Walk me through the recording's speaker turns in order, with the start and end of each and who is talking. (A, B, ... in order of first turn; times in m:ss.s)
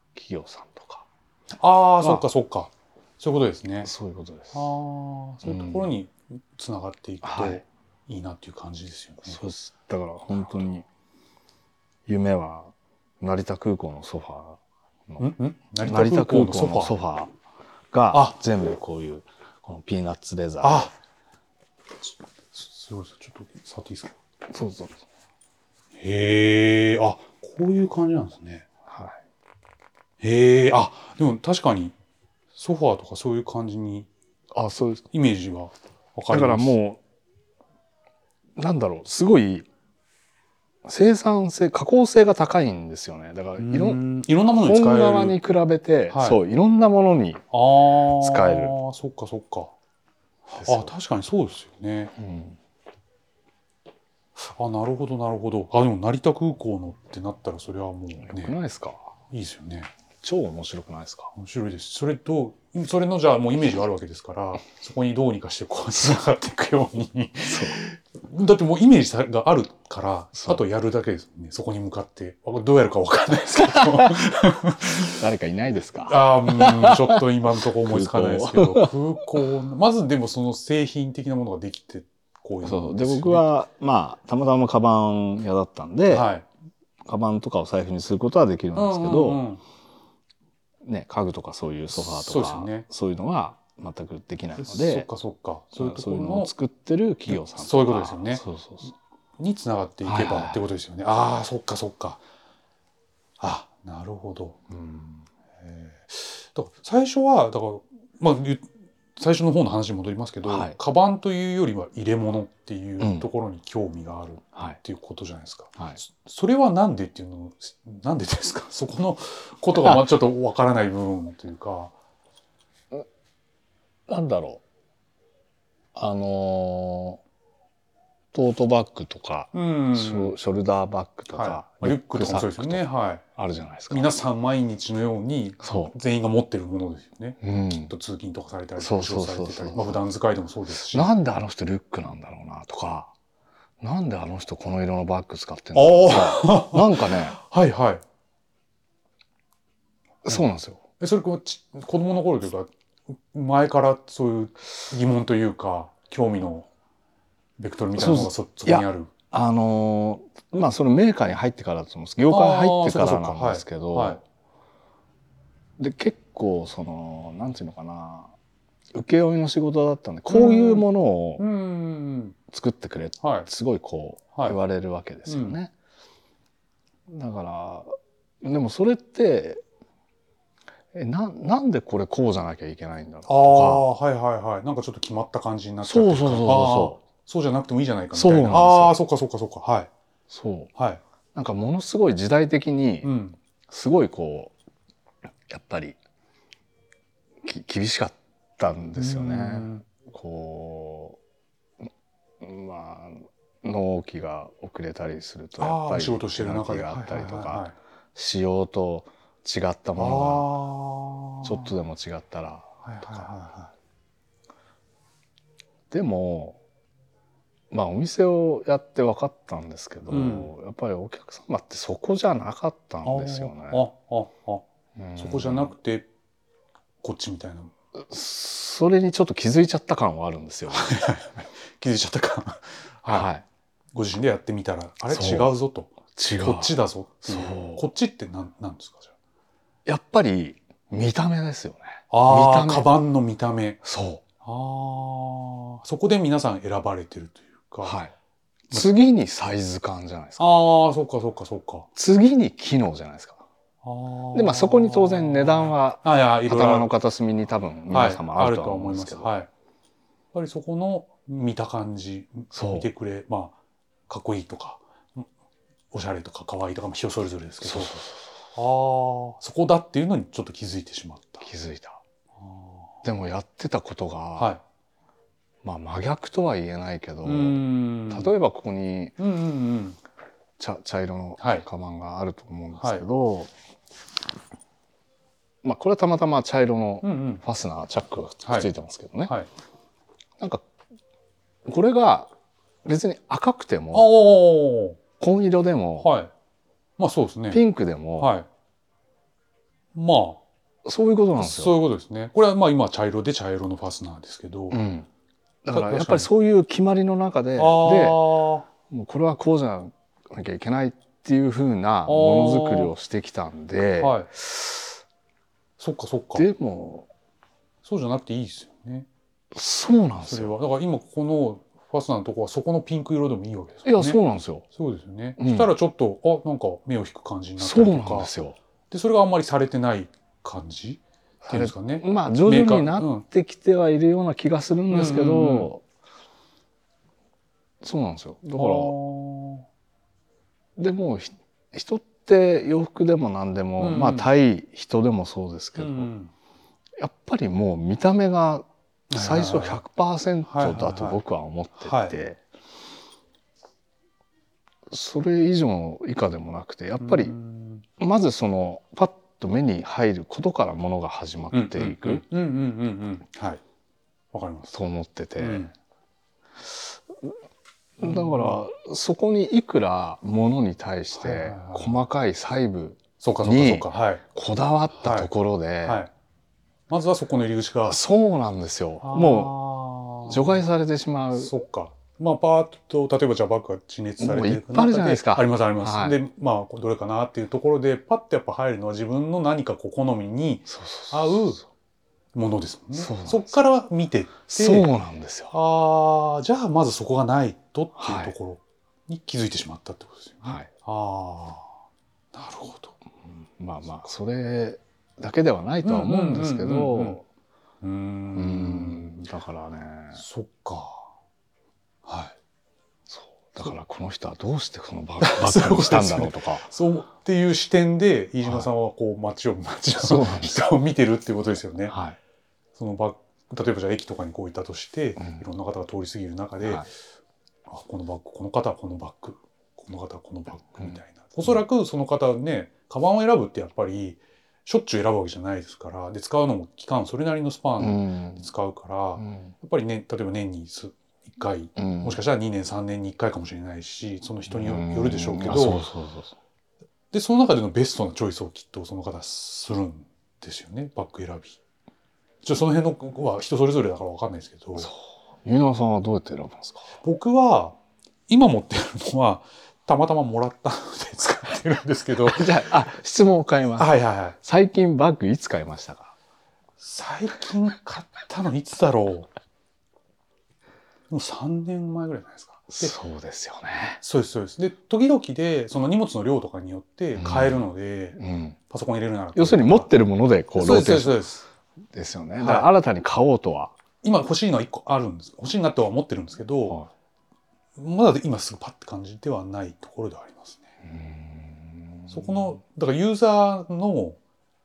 0:00.1-0:01.0 A
0:01.6-0:03.9 B
0:03.8-0:04.7 A
0:04.5-0:09.4 B
0:05.4-0:05.9 A
0:07.2-0:07.6 A
0:09.2-0:10.8 A
0:12.1-0:17.3 A
0:15.2-0:17.0 B
0:17.9-0:20.9 A
0:20.6-0:20.9 B
0:22.0-0:24.2 B
0:24.5-0:25.0 A
0:25.9-0:28.7 B
0:28.8-0:29.2 A
0:30.2-0:32.0 B
0:32.6-0:34.1 B
0:34.5-0:35.0 A
0:35.1-0:36.8 B
0:36.3-0:37.0 A
0:38.6-0:39.7 A
0:40.8-0:44.0 A
0:43.6-0:45.4 B
0:44.5-0:47.5 A
0:46.1-0:46.4 B
0:47.5-0:49.7 B
0:48.0-0:48.7 A
0:50.5-0:52.1 B
0:50.6-0:50.9 A
0:52.2-0:52.6 A
0:54.4-0:58.6 B
0:58.2-0:59.1 A
0:59.3-0:59.9 B
1:00.2-1:01.3 A
1:01.4-1:15.2 B
1:07.4-1:07.8 A
1:10.4-1:10.6 A
1:13.7-1:14.2 A
1:15.1-1:18.9 A
1:16.0-1:23.5 B
1:22.6-1:26.3 A
1:26.1-1:26.4 B
1:27.0-1:29.4 A
1:28.7-1:29.6 B
1:30.8-1:35.1 A
1:31.9-1:32.8 B
1:34.6-1:36.5 B
1:35.8-1:38.9 A
1:37.3-1:38.4 B
1:39.4-1:42.2 B
1:40.0-1:40.6 A
1:43.4-1:44.6 B
1:44.7-1:45.2 A
1:45.6-2:01.9 B
1:50.4-1:50.8 A
1:53.0-1:53.3 A
1:59.8-2:00.0 A
2:04.1-2:04.6 A
2:05.9-2:07.2 A
2:08.3-2:12.8 A
2:09.5-2:10.4 B
2:11.3-2:13.2 B
2:13.3-2:14.1 A
2:13.9-2:21.1 B
2:15.6-2:15.9 A
2:17.4-2:17.9 A
2:18.8-2:20.0 A
2:20.9-2:23.1 A
2:23.8-2:27.4 A
2:25.7-2:28.0 B
2:30.2-2:30.8 A
2:31.0-2:36.7 B
2:37.6-2:39.1 B
2:37.9-2:44.2 A
2:42.3-2:44.2 B
2:45.8-2:48.3 A
2:48.9-2:51.4 A
2:50.3-2:50.8 B
2:51.4-2:52.4 B
2:52.5-2:55.7 A
2:53.2-2:53.5 B
2:55.3-2:55.6 B
2:57.1-2:59.6 A
3:00.9-3:03.8 A
3:03.2-3:09.9 B
3:05.8-3:07.0 A
3:08.1-3:09.0 A
3:10.3-3:10.7 A
3:10.8-3:11.0 B
3:11.3-3:13.1 A
3:13.0-3:13.4 B
3:13.7-3:14.5 A
3:15.5-3:16.0 A
3:17.4-3:21.2 A
3:19.0-3:19.8 B
3:22.4-3:30.5 A
3:25.6-3:27.7 B
3:30.0-3:31.7 B
3:31.4-3:33.3 A
3:32.8-3:33.7 B
3:35.9-3:36.6 A
3:37.7-3:43.8 A
3:40.1-3:40.5 B
3:43.0-3:44.6 B
3:44.9-3:45.7 A
3:45.2-3:46.1 B
3:47.0-3:47.7 B
3:48.0-3:51.0 A
3:50.7-3:53.3 B
3:53.1-3:53.4 A
3:53.9-3:59.1 B
3:55.1-3:55.5 A
3:56.1-3:56.7 A
3:57.2-3:57.8 A
3:59.8-4:02.9 A
4:02.1-4:03.8 B
4:03.8-4:04.2 A
4:04.4-4:08.0 B
4:07.8-4:08.1 A
4:08.7-4:10.5 A
4:10.4-4:11.9 B
4:11.9-4:13.4 A
4:13.8-4:16.9 B
4:14.3-4:19.3 A
4:17.9-4:19.5 B
4:20.3-4:25.3 B
4:22.5-4:22.9 A
4:25.9-4:31.5 B
4:27.6-4:28.2 A
4:31.4-4:32.0 A
4:32.4-4:33.0 B
4:33.0-4:34.5 A
4:35.6-4:39.2 A
4:37.2-4:38.3 B
4:39.2-4:40.0 B
4:40.6-4:43.5 A
4:41.4-4:41.6 B
4:42.8-4:43.0 B
4:45.6-4:49.3 A
4:47.0-4:47.4 B
4:50.4-4:50.6 A
4:51.6-4:52.3 A
4:52.8-4:54.1 A
4:53.9-4:55.0 B
4:55.2-4:56.1 A
4:56.0-4:56.3 B
4:57.0-4:57.6 B
4:57.5-4:58.3 A
4:58.2-4:58.5 B
4:59.9-5:00.4 B
5:00.8-5:01.8 A
5:01.4-5:04.8 B
5:04.7-5:05.1 A
5:05.6-5:15.0 A
5:05.7-5:06.3 B
5:07.6-5:08.7 B
5:12.0-5:12.9 B
5:14.0-5:14.3 B
5:15.8-5:16.4 B
5:16.3-5:17.1 A
5:17.8-5:19.1 B
5:19.5-5:20.5 A
5:20.2-5:24.2 B
5:23.8-5:24.6 A
5:24.7-5:28.3 B
5:25.4-5:25.7 A
5:27.6-5:28.6 A
5:28.9-5:33.2 B
5:31.4-5:35.8 A
5:34.9-5:35.7 B
5:37.8-5:38.9 A
5:38.5-5:39.6 B
5:40.8-5:46.1 A
5:43.8-5:44.3 B
5:45.8-5:46.3 B
5:47.0-5:52.4 A
5:49.1-5:49.8 B
5:50.4-5:51.2 B
5:51.8-5:52.1 B
5:54.9-5:57.4 A
5:57.0-5:57.8 B
5:58.0-6:02.2 A
6:01.5-6:03.6 B
6:04.3-6:04.8 B
6:04.7-6:05.7 A
6:05.4-6:05.7 B
6:06.6-6:07.3 A
6:08.0-6:16.0 A
6:08.0-6:08.6 B
6:11.1-6:12.0 B
6:13.2-6:14.2 B
6:14.9-6:15.3 B
6:15.8-6:16.1 B
6:16.9-6:18.0 B
6:17.9-6:19.5 A
6:19.0-6:20.6 B
6:20.2-6:21.5 A
6:21.3-6:31.6 B
6:24.2-6:26.2 A
6:30.7-6:31.6 A
6:32.3-6:34.9 B
6:32.9-6:33.6 A
6:34.5-6:35.5 A
6:35.5-6:41.7 B
6:38.0-6:38.3 A
6:40.4-6:40.7 A
6:42.3-6:43.0 B
6:43.2-6:47.2 A
6:45.8-6:47.2 B
6:47.8-6:49.3 B
6:48.3-6:50.2 A
6:50.1-6:51.1 B
6:52.0-6:52.3 B
6:53.1-6:56.6 A
6:55.2-7:01.9 B
6:58.4-6:58.7 A
7:00.0-7:00.8 A
7:01.9-7:02.2 A
7:02.8-7:06.9 B
7:05.2-7:05.4 A
7:07.7-7:25.8 B
7:17.8-7:18.4 A
7:19.2-7:19.5 A
7:21.8-7:22.2 A
7:24.5-7:26.4 A
7:27.1-7:31.6 B
7:32.4-7:34.9 B
7:34.8-7:36.9 A
7:37.0-7:42.7 B
7:42.2-7:46.1 A
7:43.8-7:44.4 B
7:46.8-7:49.3 B
7:51.1-7:52.9 B
7:52.7-7:54.0 A
7:54.0-7:58.2 B
7:57.2-7:57.6 A
7:58.2-7:58.6 A
7:58.7-7:59.9 B
7:59.3-8:01.2 A
8:00.5-8:01.4 B
8:01.9-8:03.7 A
8:02.4-8:02.7 B
8:04.0-8:06.8 B
8:07.8-8:10.7 B
8:10.8-8:12.5 A
8:12.1-8:14.2 B